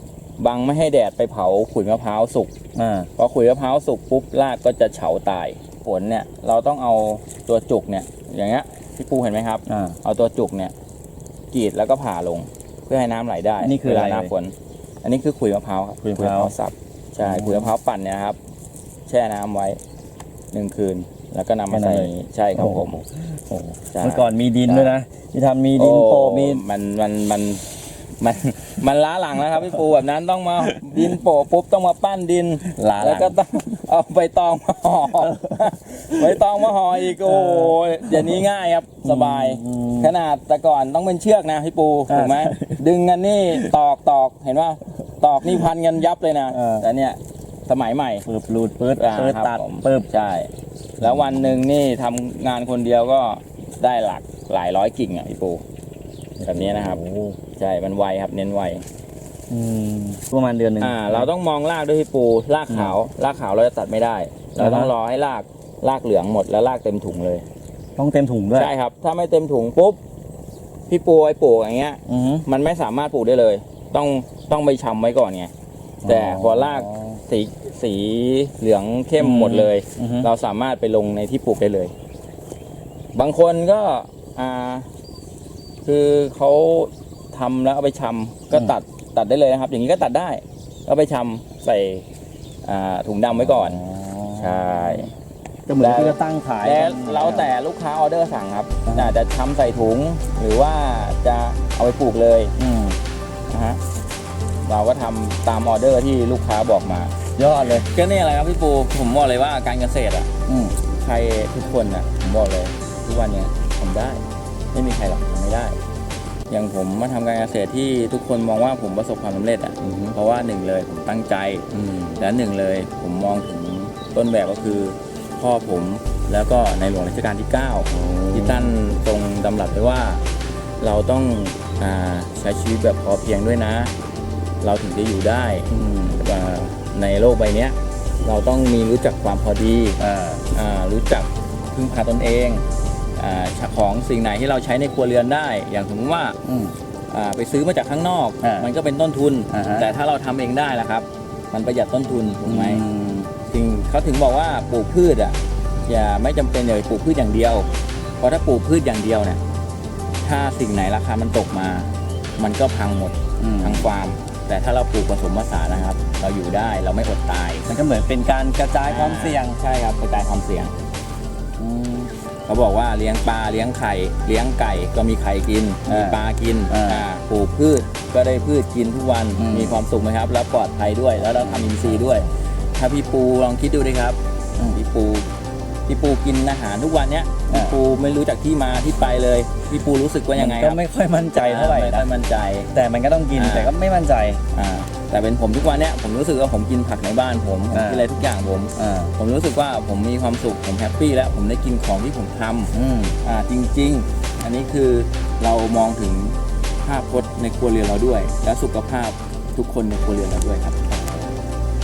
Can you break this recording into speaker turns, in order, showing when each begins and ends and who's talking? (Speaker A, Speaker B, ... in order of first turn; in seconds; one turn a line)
Speaker A: 0.4-2.5
Speaker B: 2.8-3.1
Speaker A: 3.2-10.7
Speaker B: 9.7-10.0
Speaker A: 11.5-18.4
Speaker B: 13.6-14.3
Speaker B: 16.0-16.5
Speaker B: 17.2-17.7
Speaker A: 19.1-19.8
Speaker A: 20.5-23.0
Speaker B: 21.7-26.6
Speaker A: 23.9-24.9
Speaker A: 25.8-27.7
Speaker A: 28.2-48.3
Speaker B: 32.8-33.4
Speaker B: 35.3-36.4
Speaker B: 37.0-38.4
Speaker B: 39.0-40.1
Speaker B: 42.1-42.8
Speaker B: 46.5-46.9
Speaker B: 48.3-50.1
Speaker A: 49.0-55.6
Speaker B: 51.0-51.6
Speaker B: 56.4-57.4
Speaker A: 56.5-57.0
Speaker A: 57.6-58.9
Speaker B: 59.5-61.3
Speaker A: 60.8-67.5
Speaker B: 62.7-63.0
Speaker B: 64.6-64.9
Speaker B: 68.0-68.7
Speaker A: 68.5-70.0
Speaker A: 70.9-75.5
Speaker B: 72.1-72.5
Speaker B: 76.0-77.2
Speaker A: 76.0-81.9
Speaker B: 79.2-80.3
Speaker A: 83.1-84.9
Speaker A: 85.8-92.1
Speaker A: 92.7-93.8
Speaker B: 93.3-95.1
Speaker A: 94.4-95.1
Speaker B: 95.7-97.5
Speaker A: 95.8-102.5
Speaker B: 98.8-99.1
Speaker B: 102.6-103.0
Speaker A: 103.5-103.8
Speaker A: 104.7-110.3
Speaker B: 107.4-107.9
Speaker B: 110.5-110.8
Speaker A: 110.8-115.8
Speaker A: 116.5-130.2
Speaker B: 119.8-120.2
Speaker B: 121.7-122.2
Speaker B: 127.9-128.8
Speaker A: 130.8-133.9
Speaker A: 134.6-140.0
Speaker B: 135.7-136.3
Speaker B: 140.0-140.5
Speaker A: 140.5-142.7
Speaker A: 143.2-146.4
Speaker B: 146.4-146.8
Speaker A: 147.1-152.8
Speaker B: 148.4-148.7
Speaker B: 149.5-149.9
Speaker B: 152.4-153.3
Speaker A: 153.5-157.7
Speaker A: 158.2-159.4
Speaker A: 160.2-167.7
Speaker B: 163.4-163.9
Speaker B: 167.7-169.6
Speaker A: 168.8-170.8
Speaker B: 171.6-172.1
Speaker A: 172.4-185.3
Speaker B: 175.9-177.1
Speaker B: 179.4-179.8
Speaker B: 181.2-182.3
Speaker A: 185.9-190.8
Speaker B: 187.5-187.8
Speaker B: 190.4-192.1
Speaker A: 191.4-192.7
Speaker B: 192.7-194.4
Speaker A: 193.3-193.7
Speaker A: 194.5-210.8
Speaker B: 197.7-198.1
Speaker B: 198.8-199.1
Speaker B: 202.7-203.2
Speaker B: 210.9-211.3